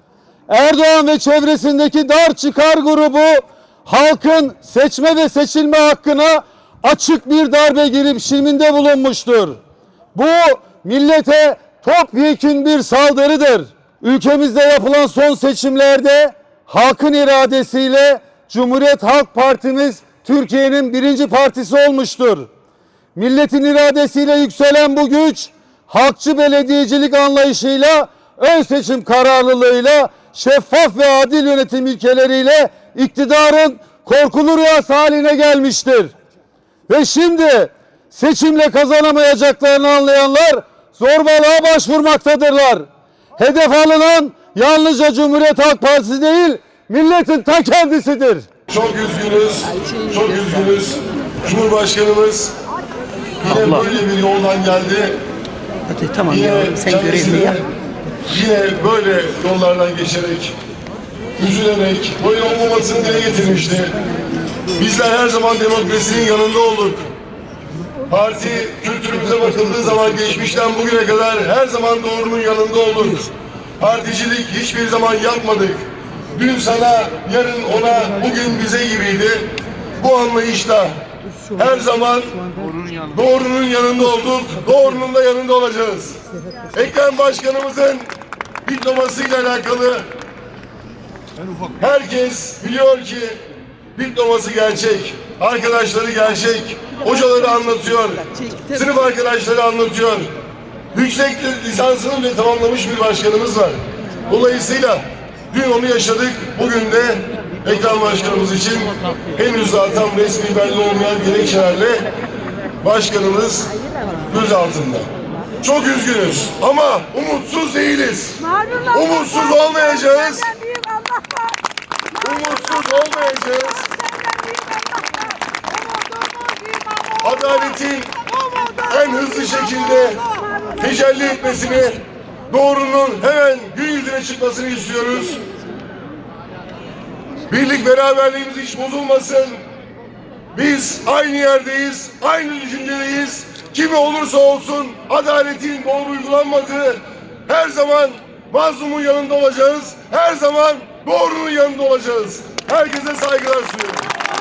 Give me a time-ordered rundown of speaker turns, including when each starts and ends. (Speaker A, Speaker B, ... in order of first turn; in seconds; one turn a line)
Speaker A: 0.5-9.6
Speaker A: 10.2-22.5
Speaker A: 23.2-36.1
Speaker A: 36.9-42.9
Speaker A: 43.4-48.5
Speaker B: 48.7-52.5
Speaker B: 53.4-55.2
Speaker C: 55.9-56.3
Speaker B: 56.2-57.7
Speaker B: 58.3-60.5
Speaker B: 61.4-64.0
Speaker B: 64.8-67.1
Speaker B: 68.1-75.8
Speaker B: 76.3-81.0
Speaker B: 81.5-82.4
Speaker B: 83.1-86.2
Speaker B: 86.7-88.1
Speaker B: 88.7-90.1
Speaker B: 91.8-93.4
Speaker B: 94.0-100.3
Speaker B: 100.9-112.0
Speaker B: 112.8-113.7
Speaker B: 114.3-115.1
Speaker B: 115.6-120.6
Speaker C: 118.5-118.9
Speaker C: 120.5-121.6
Speaker B: 122.2-124.0
Speaker C: 124.0-127.2
Speaker B: 127.2-128.2
Speaker C: 128.3-128.9
Speaker B: 128.8-135.4
Speaker C: 130.4-130.8
Speaker B: 137.5-139.6
Speaker B: 140.5-154.1